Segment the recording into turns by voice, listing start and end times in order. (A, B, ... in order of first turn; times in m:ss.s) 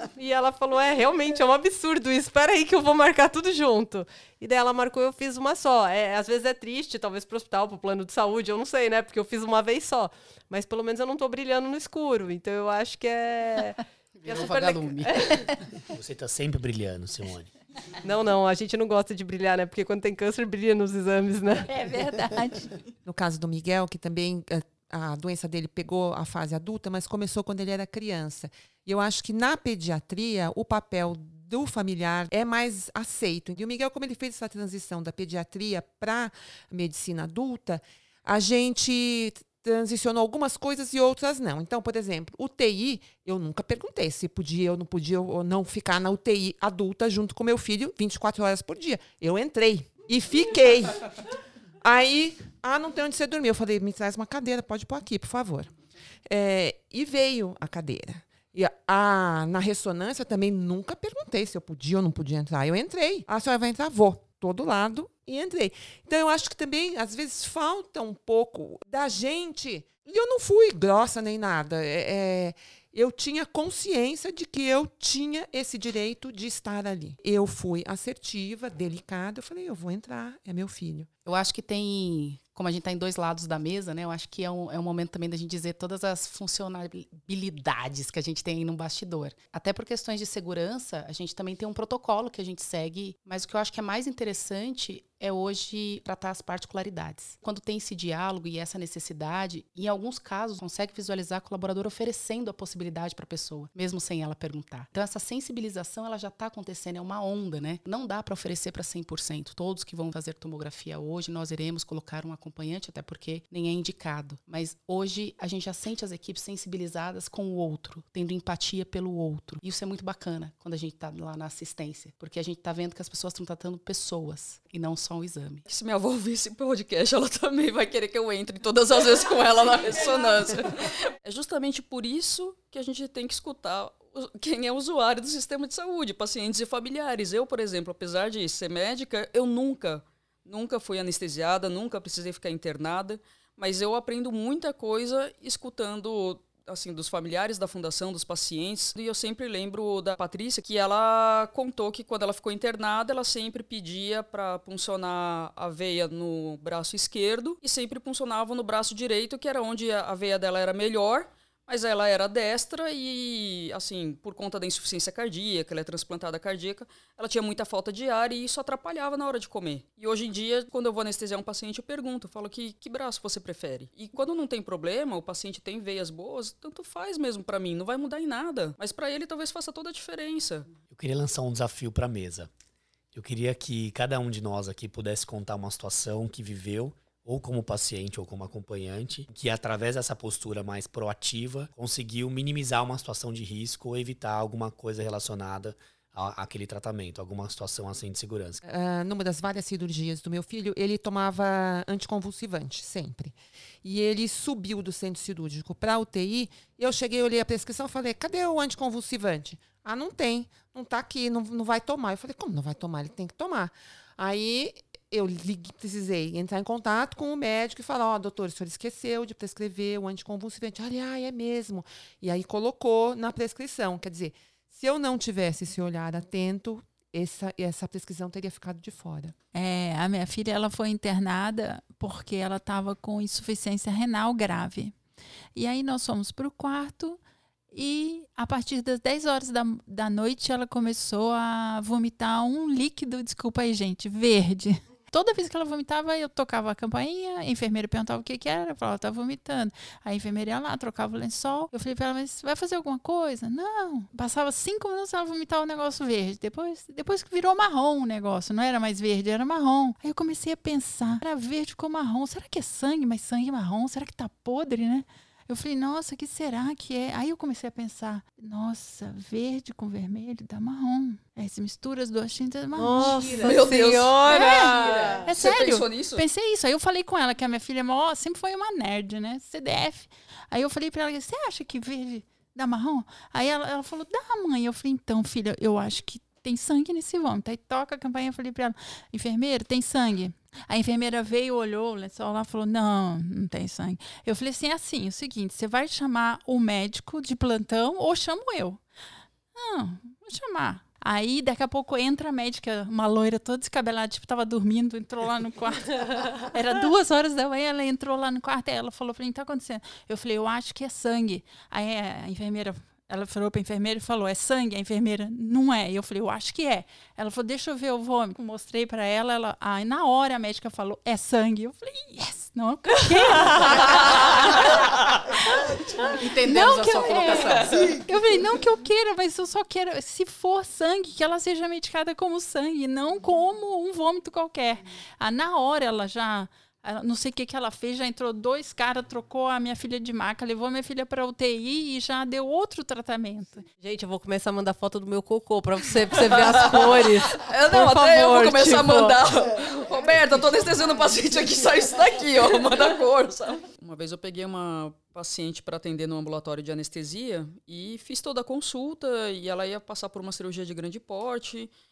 0:00.2-0:15.4 A
0:14.2-0:15.4 B
0:15.9-0:17.5 C
0:18.0-0:21.7 A
0:21.6-0:22.7 D
0:23.0-0:51.1 E
0:51.8-0:55.7 E
0:56.2-1:21.1 E
1:21.2-2:05.6 B
2:05.7-3:00.7 F
3:00.9-3:02.5 C
3:03.1-3:18.6 C
3:18.6-3:49.3 E
3:49.5-3:55.0 D
3:55.6-3:57.2 D
3:57.7-4:33.6 D
4:32.8-4:35.3 A
4:33.4-4:36.2 F
4:34.2-4:58.8 D
4:59.6-5:24.6 D
5:26.2-5:28.0 B
5:26.4-5:43.6 D
5:43.8-5:49.2 A
5:46.2-6:01.7 F